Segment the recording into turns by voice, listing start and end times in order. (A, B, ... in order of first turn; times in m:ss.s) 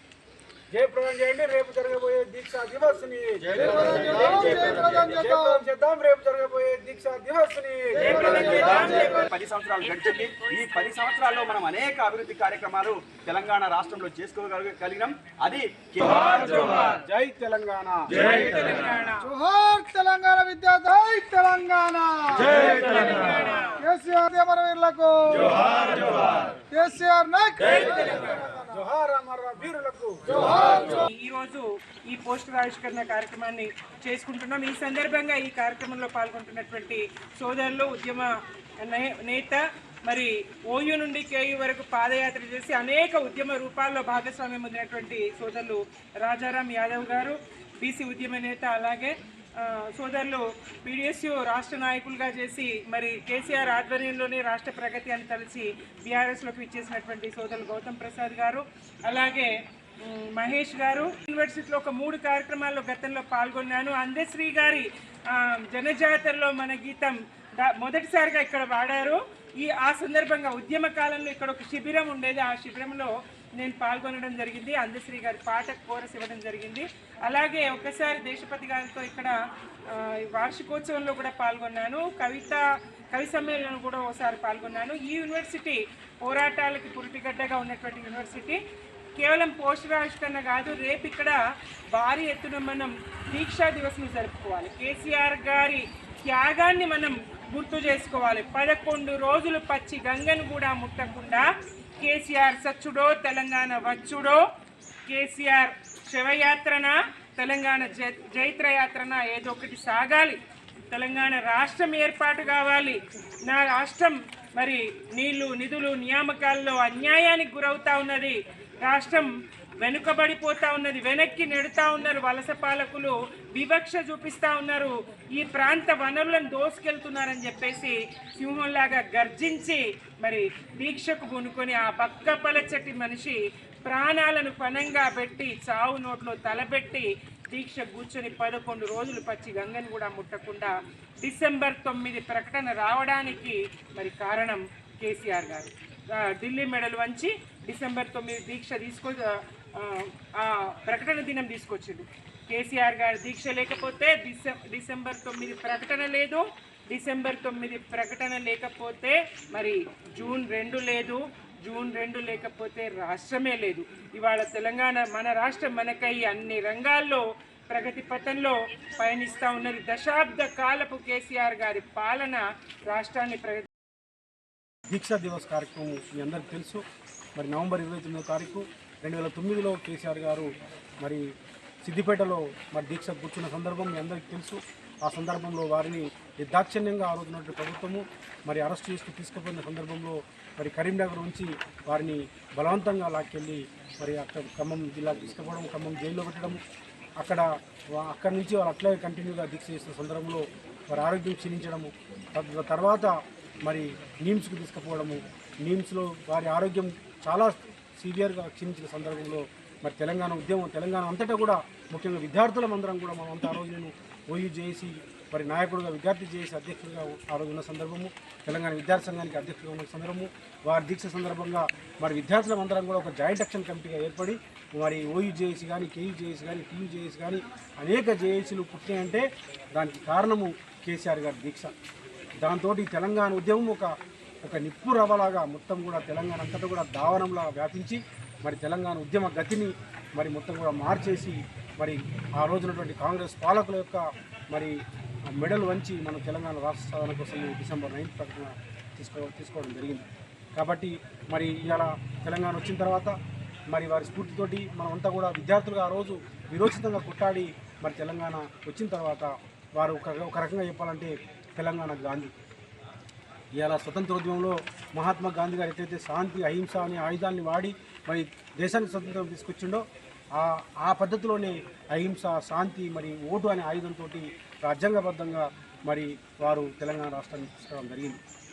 0:00.7-0:08.4 A
0:03.8-0:05.4 B
0:08.0-0:09.2 C
0:08.5-0:16.9 D
0:16.7-0:18.2 A
0:18.2-0:19.3 C
0:19.2-0:22.6 B
0:22.5-0:23.9 C
0:23.8-0:28.7 B
0:27.8-0:28.4 C
0:28.6-0:30.5 A
0:30.5-1:28.6 C
1:29.2-1:31.4 C
1:31.9-1:41.5 C
1:42.0-1:44.4 C
1:45.1-2:53.7 C
2:54.9-2:56.8 A
2:57.4-3:00.5 A
3:01.0-3:16.6 A
3:17.2-3:51.7 A
3:52.4-3:53.9 A
3:54.4-4:04.8 A
4:05.3-4:13.2 A
4:13.7-4:22.3 A
4:23.6-4:38.2 A